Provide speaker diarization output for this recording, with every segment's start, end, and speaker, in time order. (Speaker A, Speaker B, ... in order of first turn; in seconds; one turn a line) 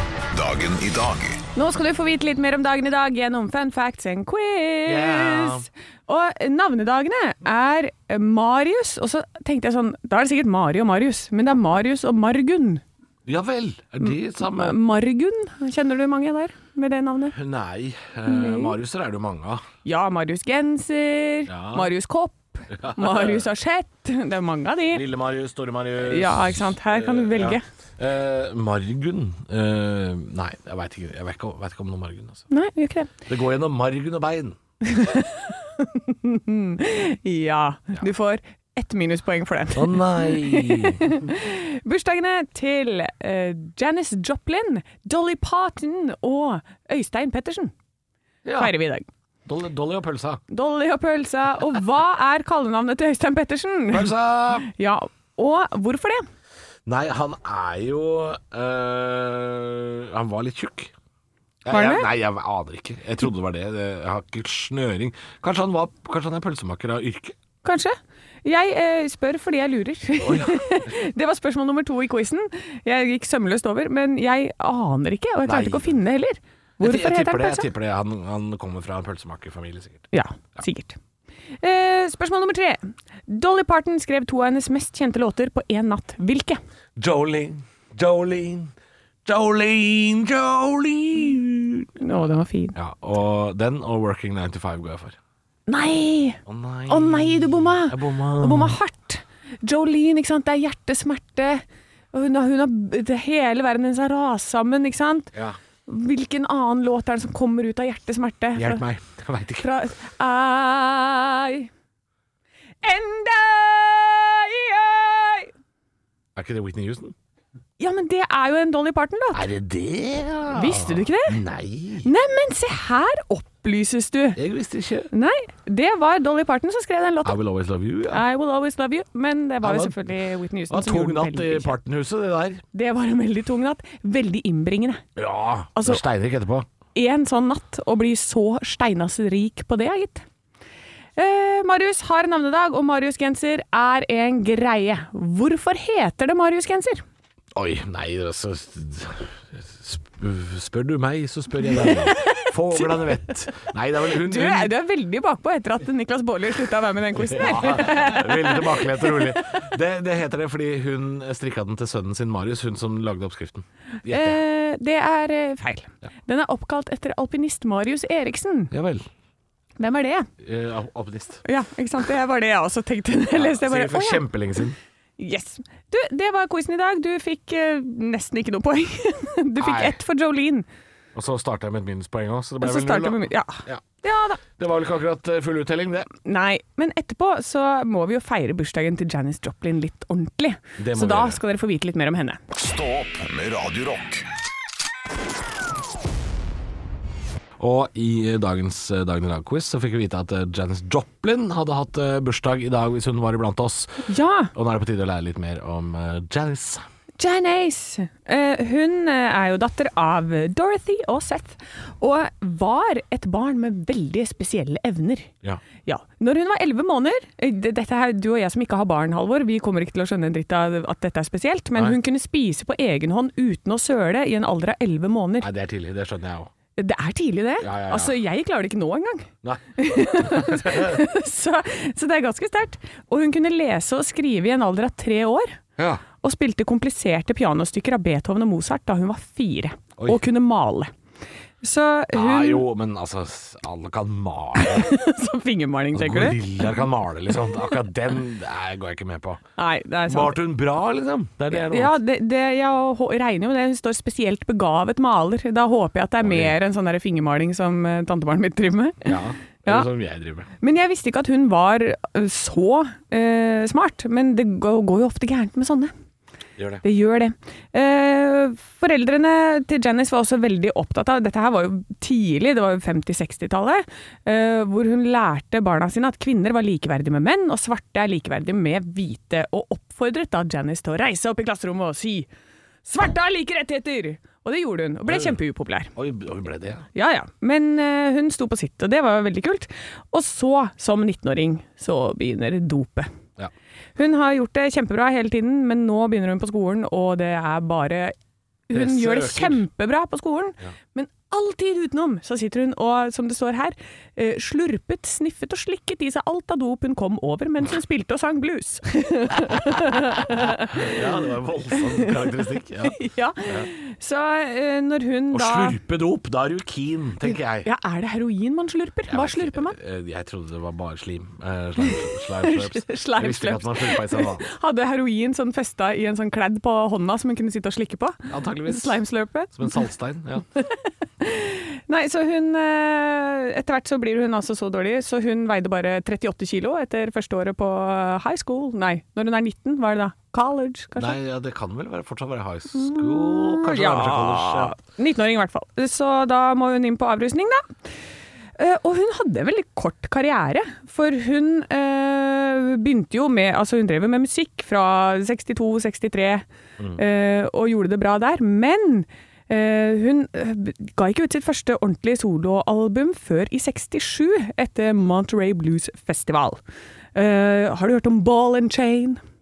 Speaker A: 0.3-1.4
Speaker B: 1.6-12.8
Speaker C: 4.9-5.7
Speaker C: 13.3-14.8
Speaker B: 14.0-17.4
Speaker C: 17.3-19.6
Speaker B: 18.3-18.8
Speaker B: 19.9-25.0
Speaker C: 21.5-21.9
Speaker C: 22.7-23.4
Speaker C: 24.9-32.5
Speaker B: 26.0-27.6
Speaker B: 32.5-33.1
Speaker C: 33.3-34.6
Speaker B: 34.8-47.7
Speaker C: 39.7-41.1
Speaker C: 48.5-48.7
Speaker B: 48.6-49.1
Speaker C: 49.5-50.4
Speaker B: 50.5-56.3
Speaker C: 53.9-54.7
Speaker C: 56.9-60.9
Speaker C: 61.6-67.4
Speaker B: 61.7-62.1
Speaker B: 67.6-77.7
Speaker C: 70.2-70.9
Speaker C: 75.5-76.0
Speaker C: 76.8-80.6
Speaker B: 80.1-81.0
Speaker B: 81.6-86.6
Speaker C: 87.0-88.7
Speaker C: 89.2-91.9
Speaker B: 92.0-92.8
Speaker C: 92.8-95.2
Speaker B: 95.7-105.3
Speaker C: 96.5-98.8
Speaker B: 105.9-108.8
Speaker C: 108.6-109.7
Speaker B: 109.6-111.7
Speaker B: 112.8-115.5
Speaker C: 116.4-117.2
Speaker B: 117.8-119.5
Speaker C: 119.3-122.1
Speaker B: 120.5-121.4
Speaker B: 122.0-124.4
Speaker C: 124.4-125.1
Speaker B: 125.1-127.4
Speaker C: 127.2-128.2
Speaker B: 128.1-131.8
Speaker C: 129.6-129.9
Speaker C: 130.7-132.6
Speaker B: 132.7-135.0
Speaker C: 135.2-136.7
Speaker B: 135.8-136.0
Speaker B: 136.9-140.2
Speaker B: 141.2-147.0
Speaker C: 147.6-154.7
Speaker B: 151.7-153.3
Speaker B: 154.1-159.4
Speaker C: 157.2-164.4
Speaker B: 164.1-168.7
Speaker C: 168.7-169.1
Speaker B: 169.8-170.3
Speaker C: 170.4-171.4
Speaker B: 171.4-174.2
Speaker C: 173.3-174.8
Speaker B: 175.2-180.7
Speaker C: 179.6-180.0
Speaker C: 181.2-183.8
Speaker B: 182.6-184.4
Speaker C: 184.5-186.1
Speaker B: 186.2-192.4
Speaker C: 190.8-191.4
Speaker A: 192.6-194.3
Speaker C: 197.6-206.8
Speaker B: 204.1-204.5
Speaker B: 207.2-215.3
Speaker B: 215.8-225.5
Speaker C: 225.4-226.5
Speaker B: 226.8-235.6
Speaker C: 227.6-228.1
Speaker C: 229.4-231.0
Speaker B: 236.2-240.9
Speaker B: 241.6-242.7
Speaker C: 242.1-244.9
Speaker B: 244.6-246.7
Speaker C: 245.9-249.4
Speaker B: 249.6-250.4
Speaker C: 250.1-251.9
Speaker B: 251.5-259.1
Speaker C: 256.2-256.6
Speaker C: 259.1-260.5
Speaker B: 260.6-265.9
Speaker C: 266.6-266.8
Speaker B: 266.8-282.3
Speaker B: 282.9-285.9
Speaker C: 285.1-285.4
Speaker C: 285.9-286.9
Speaker B: 286.9-293.1
Speaker B: 294.0-298.1
Speaker B: 298.7-311.0
Speaker C: 298.7-299.6
Speaker C: 310.3-313.7
Speaker B: 311.7-315.8
Speaker C: 315.3-317.7
Speaker B: 317.3-319.8
Speaker C: 319.1-324.5
Speaker B: 321.8-329.8
Speaker C: 328.3-329.0
Speaker C: 329.5-330.5
Speaker B: 330.6-341.2
Speaker C: 341.0-344.8
Speaker B: 342.7-347.7
Speaker B: 348.6-366.6
Speaker B: 367.1-369.2